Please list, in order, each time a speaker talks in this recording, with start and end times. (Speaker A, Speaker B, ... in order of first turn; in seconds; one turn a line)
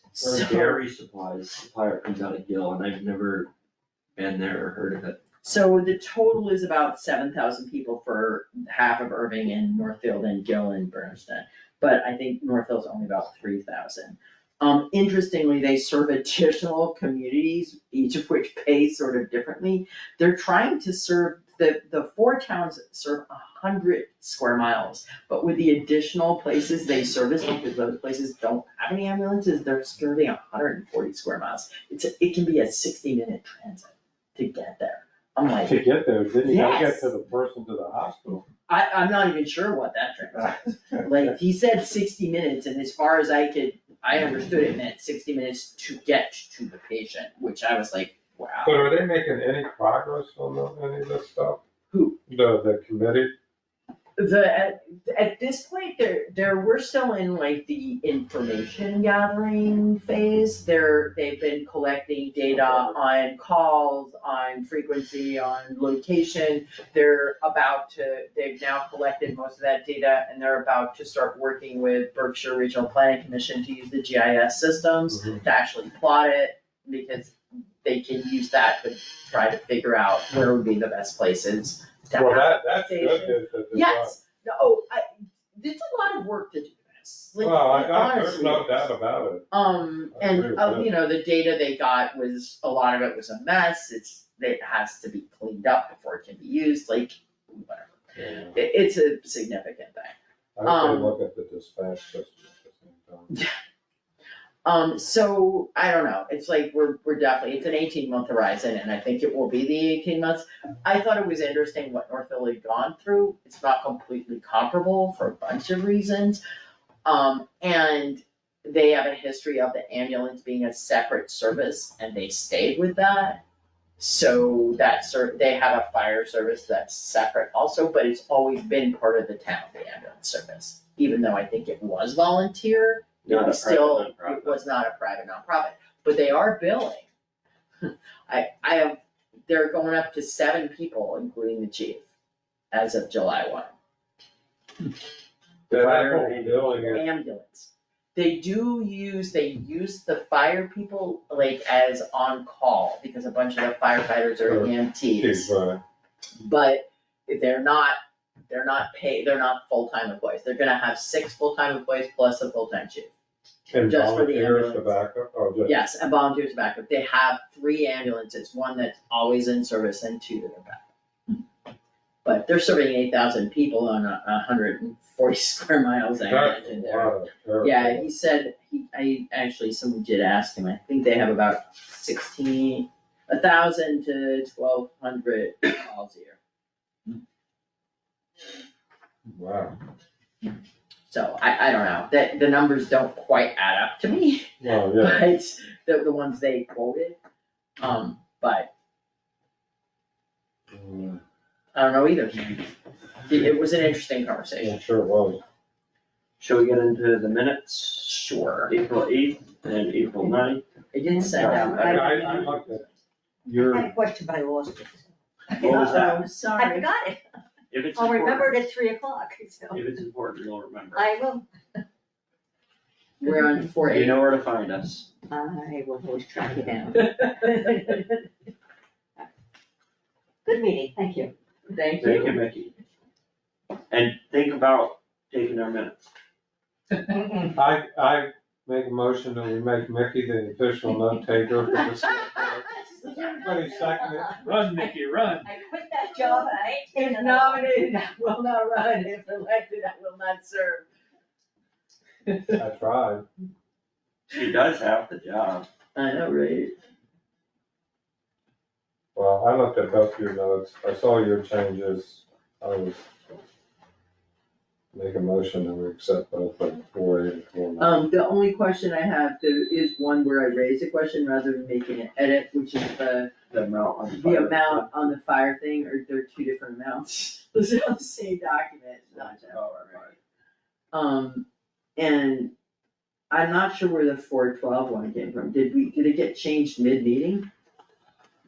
Speaker A: 0.1-0.7
Speaker B: 0.2-0.8
Speaker C: 0.4-3.5
Speaker C: 4.2-5.2
Speaker A: 5.4-35.8
Speaker B: 35.6-38.5
Speaker A: 36.4-37.1
Speaker A: 38.7-48.9
Speaker B: 40.9-41.3
Speaker B: 48.6-51.6
Speaker A: 51.9-52.2
Speaker B: 52.3-53.3
Speaker A: 54.2-88.9
Speaker B: 75.1-75.4
Speaker B: 82.1-84.2
Speaker B: 87.4-89.5
Speaker A: 89.5-98.0
Speaker B: 90.1-90.9
Speaker B: 98.2-98.6
Speaker A: 98.5-101.2
Speaker B: 100.6-103.3
Speaker A: 104.7-116.4
Speaker A: 117.0-123.4
Speaker A: 124.0-137.1
Speaker C: 133.2-134.6
Speaker A: 137.8-142.1
Speaker A: 142.7-143.7
Speaker C: 145.7-147.0
Speaker B: 145.7-147.0
Speaker A: 146.9-155.5
Speaker B: 154.4-155.8
Speaker A: 156.4-158.0
Speaker A: 158.5-163.1
Speaker B: 163.7-165.8
Speaker A: 163.8-164.9
Speaker A: 165.7-171.4
Speaker A: 172.2-186.4
Speaker B: 176.3-178.1
Speaker B: 189.3-189.8
Speaker A: 191.1-197.2
Speaker B: 194.6-195.3
Speaker A: 197.8-198.7
Speaker B: 200.7-201.2
Speaker A: 201.8-202.6
Speaker A: 203.2-204.8
Speaker B: 204.6-205.4
Speaker C: 206.4-210.6
Speaker A: 208.0-208.7
Speaker A: 210.9-213.0
Speaker C: 211.2-212.1
Speaker D: 211.3-212.4
Speaker B: 211.7-212.8
Speaker B: 213.5-213.9
Speaker D: 213.5-217.2
Speaker A: 215.6-216.9
Speaker C: 215.6-216.3
Speaker C: 217.7-218.6
Speaker D: 217.9-219.8
Speaker C: 219.7-221.2
Speaker D: 220.9-221.5
Speaker A: 223.2-224.2
Speaker D: 223.2-223.6
Speaker C: 223.8-225.1
Speaker D: 225.3-228.0
Speaker A: 226.9-228.1
Speaker D: 230.4-231.3
Speaker A: 231.7-232.4
Speaker C: 232.0-232.7
Speaker C: 233.9-236.1
Speaker B: 237.6-242.6
Speaker A: 242.1-242.4
Speaker D: 242.3-248.0
Speaker B: 243.1-245.5
Speaker A: 246.9-250.9
Speaker A: 252.3-252.6
Speaker B: 252.6-253.3
Speaker C: 254.3-255.7
Speaker A: 255.9-256.7
Speaker B: 259.1-263.1
Speaker B: 264.9-267.9
Speaker A: 267.8-273.3
Speaker C: 273.5-275.1
Speaker A: 274.2-280.1
Speaker C: 279.1-280.2
Speaker A: 280.9-281.5
Speaker A: 282.0-282.5
Speaker A: 283.3-287.5